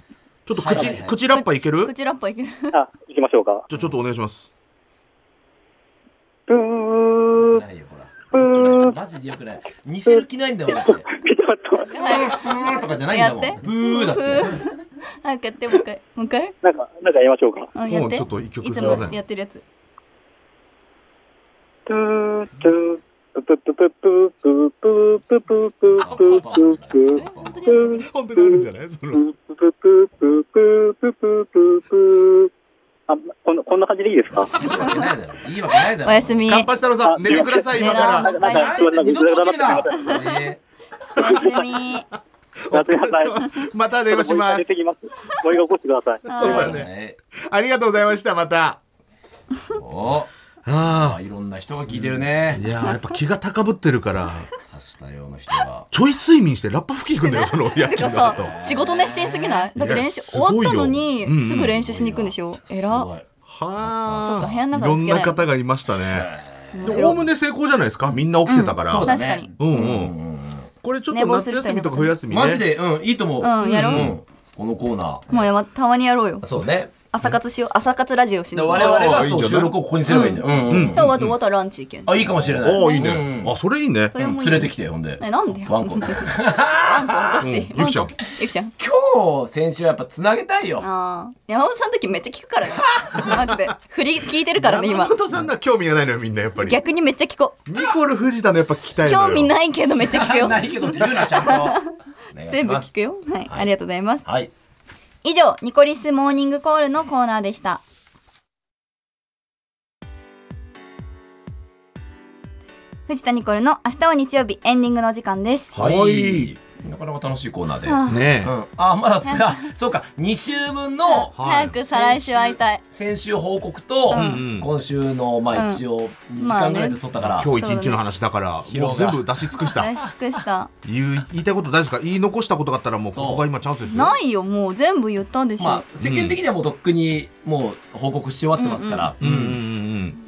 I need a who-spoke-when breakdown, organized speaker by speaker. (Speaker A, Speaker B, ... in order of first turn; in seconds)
Speaker A: 0.5-1.9, 3.7-4.5, 17.9-19.2, 28.0-29.2, 36.5-38.3, 41.1-41.8, 42.6-44.7, 46.3-48.8, 50.6-51.2, 51.9-54.5, 55.9-58.5, 59.8-61.7, 63.5-66.3, 66.8-70.1, 70.8-72.6, 73.7-74.2, 78.7-79.8, 80.6-81.3, 82.4-84.2, 87.4-88.1, 93.1-93.6, 94.6-96.8, 97.7-99.5, 115.8-116.5, 118.1-118.5, 121.4-121.8, 124.1-124.7, 127.2-129.9, 130.8-134.2, 136.0-136.4, 139.2-140.2
Speaker B: 0.6-1.2, 7.3-11.1, 12.0-14.7, 25.9-27.7, 34.3-36.4, 38.3-40.6, 46.5-47.2, 49.5-52.6, 54.7-55.9, 58.0-59.7, 61.5-63.3, 63.8-64.6, 66.0-67.2, 68.9-70.7, 72.3-75.4, 76.4-76.9, 78.5-81.2, 82.1-83.5, 84.2-87.5, 88.8-90.9, 92.8-93.3, 100.0-101.8, 102.3-102.9, 104.2-104.5, 115.7-127.5, 128.7-129.7, 133.1-133.4, 135.6-139.6
Speaker C: 0.8-2.8, 11.9-16.6, 17.8-19.6, 27.1-28.1, 34.4-35.1, 36.0-36.7, 37.3-38.8, 41.1-42.1, 46.3-46.8, 52.8-53.2, 57.2-63.1, 64.2-65.4, 66.8-67.2, 68.5-69.5, 71.1-72.2, 73.4-74.1, 75.3-76.5, 77.1-79.1, 80.1-83.2, 84.1-88.7, 90.8-95.2, 96.6-97.6, 99.1-101.9, 102.5-104.2, 105.2-107.8, 113.1-115.8, 117.8-118.3, 119.2-119.6, 121.1-122.8, 124.1-124.4, 125.5-125.8, 126.4-127.0, 127.6-128.0, 129.6-130.7, 133.9-135.8, 138.6-139.1
Speaker D: 2.7-3.7, 6.5-7.6, 8.3-9.0, 10.1-12.5, 16.6-17.7, 21.9-32.5, 33.1-34.8, 37.0-40.4, 42.7-43.5, 44.1-46.6